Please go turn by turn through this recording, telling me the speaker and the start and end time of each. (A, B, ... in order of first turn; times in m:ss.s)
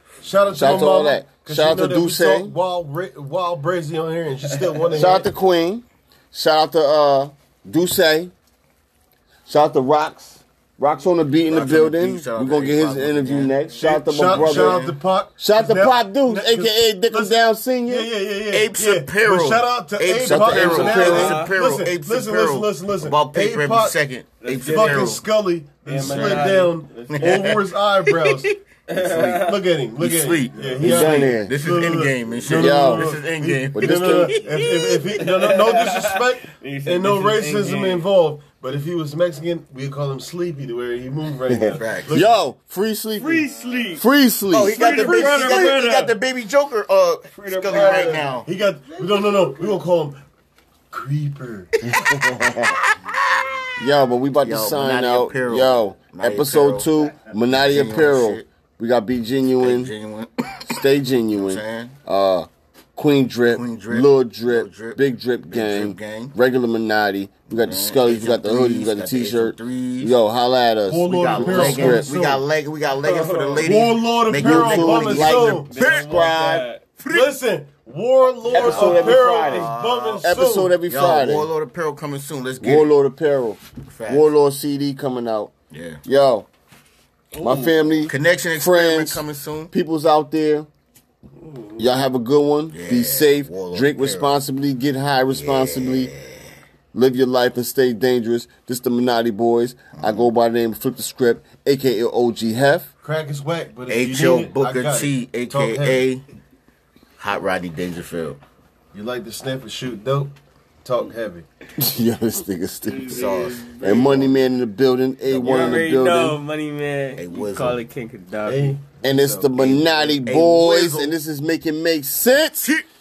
0:00.2-0:05.3 A
0:00.5-0:02.5 B
0:04.9-0:08.3 B
0:09.5-0:14.8 B
0:11.5-0:15.0 C
0:13.7-0:24.0 A
0:15.4-0:18.1 B
0:18.5-0:25.2 C
0:20.2-0:21.4 B
0:20.8-0:21.5 D
0:24.4-0:25.2 D
0:24.6-0:42.3 A
0:25.8-0:29.6 D
0:26.0-0:26.4 C
0:27.1-0:27.6 C
0:30.0-0:35.2 C
0:30.8-0:31.5 B
0:32.4-0:33.1 B
0:33.7-0:34.5 B
0:35.2-0:38.1 D
0:41.5-0:43.4 B
0:41.7-0:42.2 C
0:43.2-0:44.0 D
0:44.0-0:45.2 B
0:44.5-0:48.5 C
0:44.6-0:46.1 D
0:45.0-0:45.6 A
0:47.3-0:48.3 D
0:47.7-0:50.2 A
0:50.9-0:51.7 A
0:51.8-0:52.8 B
0:51.9-0:52.1 C
0:53.1-0:53.5 C
0:53.8-0:59.9 B
0:54.4-0:58.4 C
0:59.6-1:00.7 C
1:00.7-1:12.1 B
1:01.3-1:02.0 C
1:03.5-1:06.3 C
1:07.5-1:10.1 C
1:10.9-1:12.4 A
1:11.1-1:16.3 C
1:13.0-1:13.7 D
1:13.6-1:15.9 A
1:14.3-1:16.6 B
1:15.7-1:16.8 D
1:17.0-1:17.3 C
1:17.1-1:20.7 A
1:18.4-1:20.2 C
1:18.5-1:19.7 B
1:20.2-1:21.5 B
1:20.9-1:22.9 C
1:22.6-1:25.5 B
1:23.9-1:24.3 C
1:25.7-1:26.0 C
1:26.0-1:26.5 B
1:27.4-1:27.7 D
1:27.4-1:30.7 B
1:27.6-1:29.7 C
1:31.4-1:31.9 D
1:31.8-1:36.1 B
1:32.7-1:34.4 C
1:35.3-1:36.4 C
1:36.9-1:42.9 B
1:40.0-1:40.3 C
1:43.0-1:46.0 A
1:43.9-1:46.2 C
1:47.2-1:48.4 C
1:48.9-1:51.4 A
1:51.8-1:56.4 B
1:52.9-1:54.2 C
1:55.3-1:55.8 C
1:55.4-1:58.8 D
1:57.2-1:57.8 C
1:58.4-1:59.5 A
1:59.0-2:02.6 B
1:59.6-2:01.1 C